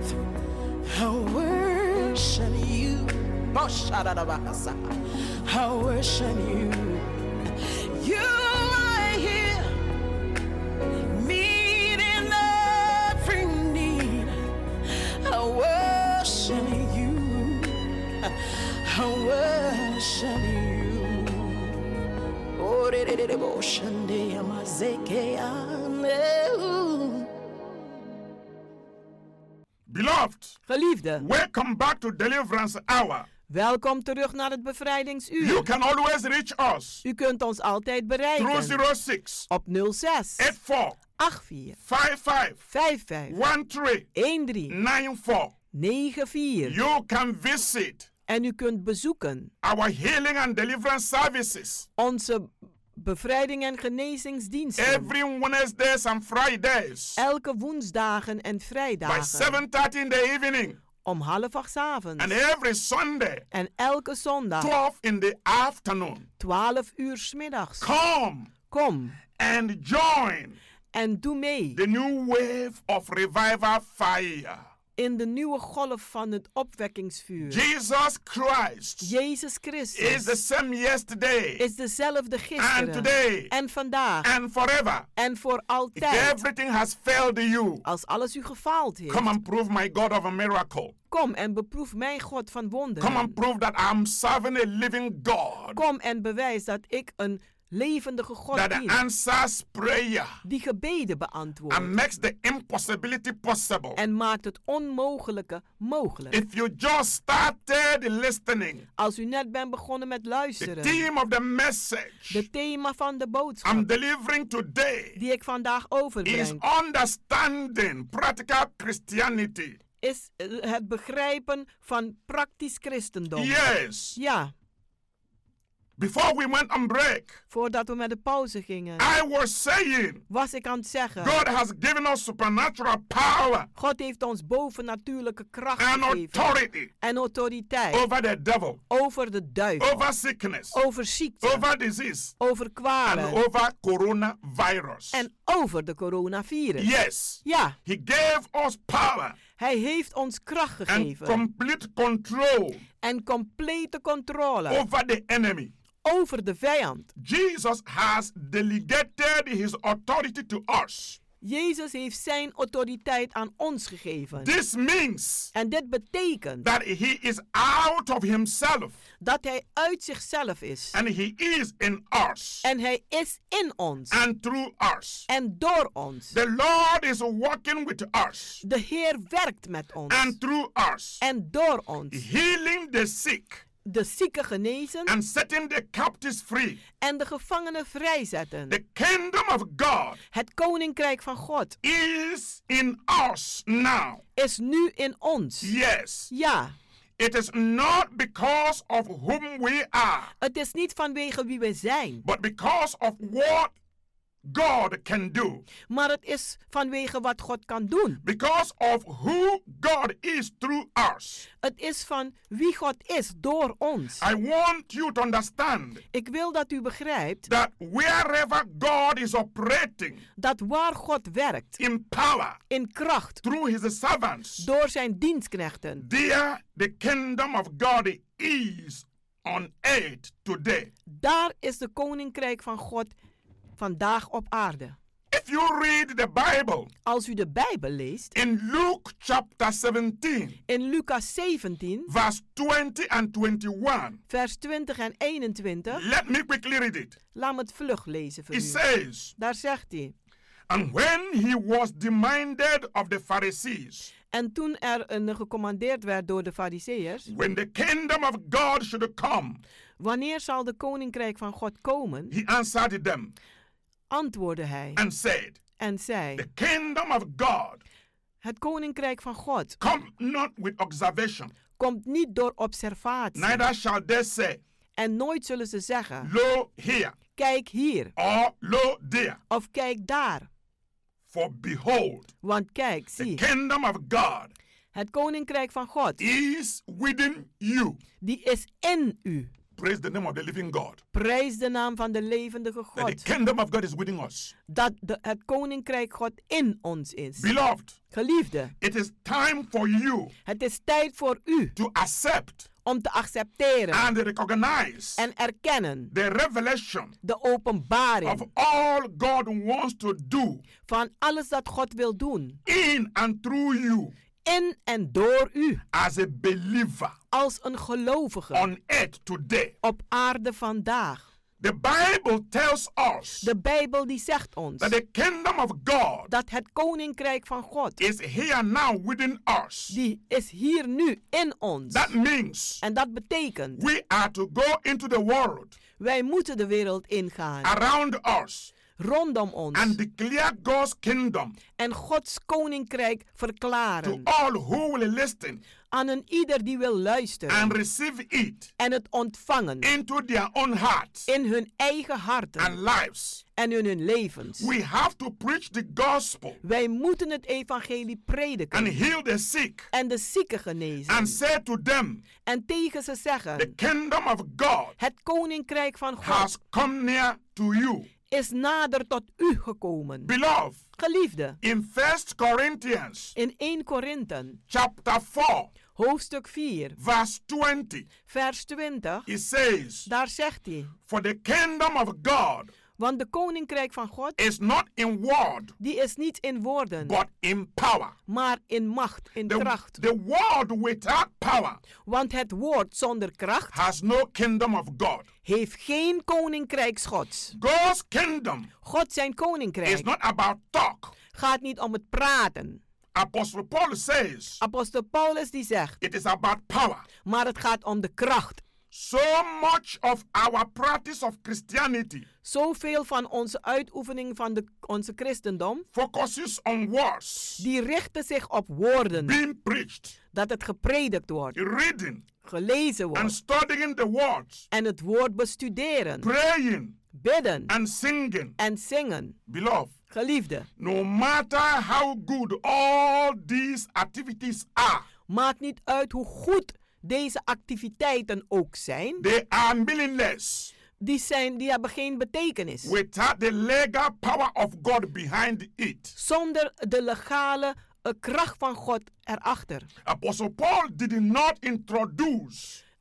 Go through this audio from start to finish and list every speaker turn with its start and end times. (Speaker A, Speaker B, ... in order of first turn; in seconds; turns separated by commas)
Speaker A: 0.8-4.9, Speaker A: 5.4-7.2, Speaker A: 7.9-9.8, Speaker A: 11.1-21.7, Speaker A: 22.6-27.3, Speaker B: 29.9-30.6, Speaker C: 30.7-31.2, Speaker B: 31.2-33.3, Speaker C: 33.5-35.7, Speaker B: 35.4-37.0, Speaker C: 37.0-38.8, Speaker B: 38.4-39.5, Speaker C: 39.5-40.5, Speaker B: 40.4-41.0, Speaker C: 41.2-41.8, Speaker B: 41.8-42.6, Speaker C: 42.7-43.3, Speaker B: 43.3-44.1, Speaker C: 44.1-44.7, Speaker B: 44.7-45.5, Speaker C: 45.7-46.8, Speaker B: 46.6-48.1, Speaker C: 48.3-49.5, Speaker B: 49.6-51.9, Speaker C: 52.0-55.1, Speaker B: 54.8-57.2, Speaker C: 57.2-59.6, Speaker B: 59.0-60.8, Speaker C: 61.0-62.4, Speaker B: 62.2-63.4, Speaker C: 63.5-64.7, Speaker B: 64.6-66.3, Speaker C: 66.4-67.9, Speaker B: 67.8-68.5, Speaker C: 68.7-69.2, Speaker B: 69.3-70.6, Speaker C: 70.9-71.8, Speaker B: 71.7-74.6, Speaker C: 75.0-77.6, Speaker B: 77.4-79.1, Speaker C: 79.0-80.3, Speaker B: 80.0-81.6, Speaker C: 81.6-84.3, Speaker B: 82.6-83.5, Speaker B: 84.2-85.1, Speaker C: 85.2-86.4, Speaker B: 86.0-87.8, Speaker C: 87.8-89.3, Speaker B: 89.1-90.9, Speaker C: 91.1-93.4, Speaker B: 93.0-95.8, Speaker C: 95.7-99.0, Speaker B: 98.5-100.3, Speaker C: 100.4-101.9, Speaker B: 101.7-104.0, Speaker C: 104.0-106.4, Speaker B: 106.3-108.8, Speaker C: 109.0-111.0, Speaker B: 110.6-112.4, Speaker C: 112.3-113.9, Speaker B: 113.6-115.2, Speaker C: 115.2-116.6, Speaker B: 116.2-119.8, Speaker C: 120.0-123.6, Speaker B: 123.3-124.2, Speaker C: 124.1-124.5, Speaker B: 126.0-127.4, Speaker C: 127.5-129.1, Speaker B: 129.0-130.2, Speaker C: 130.3-131.4, Speaker B: 131.2-133.7, Speaker C: 133.8-138.0, Speaker B: 135.8-136.9, Speaker B: 137.9-138.8, Speaker C: 138.9-140.1, Speaker B: 139.8-140.8, Speaker C: 140.7-141.6, Speaker B: 141.4-142.3, Speaker C: 142.4-143.4, Speaker B: 143.0-145.2, Speaker C: 145.1-146.9, Speaker B: 146.8-149.4, Speaker C: 147.4-147.8, Speaker C: 149.6-151.4, Speaker B: 150.9-152.8, Speaker C: 153.0-154.8, Speaker B: 154.7-155.7, Speaker C: 156.0-157.1, Speaker B: 157.2-161.2, Speaker C: 161.4-164.5, Speaker B: 164.4-165.5, Speaker C: 165.5-166.7, Speaker B: 166.6-168.9, Speaker C: 169.2-171.0, Speaker B: 170.9-172.6, Speaker C: 172.6-174.2, Speaker B: 174.1-175.3, Speaker C: 175.3-176.3, Speaker B: 176.3-178.6, Speaker C: 178.6-180.3, Speaker B: 180.1-181.2, Speaker C: 181.2-182.2, Speaker B: 182.1-183.6, Speaker C: 183.8-185.1, Speaker B: 185.1-186.8, Speaker C: 187.0-188.8, Speaker B: 188.7-190.2, Speaker C: 190.3-191.8, Speaker B: 191.8-194.2, Speaker C: 194.3-195.7, Speaker B: 195.6-196.3, Speaker C: 196.3-196.7, Speaker B: 197.2-200.3, Speaker C: 200.4-202.2, Speaker B: 202.2-203.7, Speaker B: 204.4-205.7, Speaker C: 205.9-208.2, Speaker B: 208.2-211.4, Speaker C: 211.6-214.2, Speaker B: 214.2-216.0, Speaker C: 216.1-217.5, Speaker B: 217.5-220.2, Speaker C: 220.4-221.8, Speaker B: 221.8-222.6, Speaker C: 222.7-223.4, Speaker B: 223.4-224.7, Speaker C: 224.6-226.0, Speaker B: 226.0-230.9, Speaker C: 231.1-233.1, Speaker C: 233.8-234.9, Speaker B: 235.3-236.9, Speaker C: 237.0-238.3, Speaker B: 238.3-240.6, Speaker C: 240.7-242.1, Speaker B: 242.1-244.2, Speaker C: 244.3-246.0, Speaker B: 245.9-247.2, Speaker C: 247.3-248.8, Speaker B: 248.5-249.3, Speaker C: 249.4-250.1, Speaker B: 250.7-254.1, Speaker C: 254.3-257.3, Speaker B: 257.3-259.6, Speaker C: 260.0-262.3, Speaker B: 262.3-263.3, Speaker C: 264.1-265.0, Speaker B: 264.9-265.6, Speaker C: 265.8-266.4, Speaker B: 266.4-267.8, Speaker C: 268.4-269.8, Speaker B: 269.8-271.5, Speaker C: 271.8-273.6, Speaker B: 273.4-274.6, Speaker C: 274.9-276.3, Speaker B: 276.2-277.1, Speaker C: 277.4-278.1, Speaker B: 278.1-279.4, Speaker C: 279.5-280.5, Speaker B: 281.3-282.3, Speaker C: 282.4-283.4, Speaker B: 283.2-284.5, Speaker C: 284.9-286.2, Speaker B: 286.2-288.0, Speaker C: 288.2-289.5, Speaker B: 289.8-291.0, Speaker C: 291.1-293.2, Speaker B: 293.0-294.5, Speaker C: 294.7-297.5, Speaker B: 297.4-298.0, Speaker C: 298.1-298.7, Speaker B: 298.8-300.3, Speaker C: 300.4-301.7, Speaker B: 301.8-302.7, Speaker C: 302.8-304.1, Speaker B: 303.9-305.2, Speaker C: 305.2-306.1, Speaker B: 306.1-307.1, Speaker C: 307.2-308.4, Speaker B: 308.2-310.6, Speaker C: 310.8-312.6, Speaker B: 312.6-314.1, Speaker C: 314.4-315.8, Speaker B: 315.9-317.1, Speaker C: 317.3-318.7, Speaker B: 318.5-319.7, Speaker C: 319.8-321.2, Speaker B: 321.6-323.5, Speaker C: 323.4-324.9, Speaker B: 324.8-326.3, Speaker C: 326.3-328.0, Speaker B: 328.0-329.9, Speaker C: 329.9-332.1, Speaker B: 331.9-332.8, Speaker C: 332.8-333.8, Speaker B: 333.8-335.8, Speaker C: 336.0-337.7, Speaker B: 337.6-338.7, Speaker C: 339.0-339.9, Speaker B: 339.7-341.6, Speaker C: 341.8-344.3, Speaker B: 344.0-345.6, Speaker C: 345.9-347.8, Speaker B: 347.5-348.7, Speaker C: 348.8-349.9, Speaker B: 349.8-351.3, Speaker C: 351.3-352.7, Speaker B: 352.6-353.4, Speaker C: 353.6-354.7, Speaker B: 354.6-356.6, Speaker C: 356.6-359.0, Speaker B: 358.7-359.9, Speaker C: 359.9-361.4, Speaker B: 361.1-362.2, Speaker C: 362.4-363.7, Speaker B: 363.6-364.9, Speaker C: 365.0-366.5, Speaker B: 366.2-368.1, Speaker C: 368.3-370.3, Speaker B: 370.2-370.8, Speaker C: 370.9-371.6, Speaker B: 371.6-373.4, Speaker C: 373.4-374.6, Speaker B: 374.7-375.7, Speaker C: 375.9-377.0, Speaker B: 377.0-378.1, Speaker C: 378.2-379.3, Speaker B: 379.3-380.1, Speaker C: 380.1-380.9, Speaker B: 381.1-382.7, Speaker C: 383.0-384.4, Speaker B: 384.4-385.7, Speaker C: 385.8-387.1, Speaker B: 387.0-388.1, Speaker C: 388.3-390.0, Speaker B: 389.5-391.8, Speaker C: 392.0-393.8, Speaker B: 393.7-395.3, Speaker C: 395.4-397.5, Speaker B: 397.5-398.7, Speaker C: 398.8-400.1, Speaker B: 399.8-401.1, Speaker C: 401.3-402.8, Speaker B: 403.1-404.6, Speaker C: 404.6-406.0, Speaker B: 406.0-407.1, Speaker C: 407.2-408.6, Speaker B: 408.9-412.3, Speaker C: 412.4-415.9, Speaker B: 415.9-417.6, Speaker C: 417.6-419.4, Speaker B: 419.1-420.1, Speaker C: 420.3-421.5, Speaker B: 421.5-422.2, Speaker C: 422.4-423.4, Speaker B: 423.1-424.6, Speaker C: 424.7-426.3, Speaker B: 426.2-426.9, Speaker C: 427.1-427.7, Speaker B: 427.7-428.6, Speaker C: 428.6-429.4, Speaker B: 429.5-429.9, Speaker C: 430.1-430.7, Speaker B: 430.8-435.1, Speaker C: 435.3-439.2, Speaker B: 439.2-440.7, Speaker C: 441.0-442.9, Speaker B: 442.8-446.1, Speaker C: 446.2-449.9, Speaker B: 450.0-452.8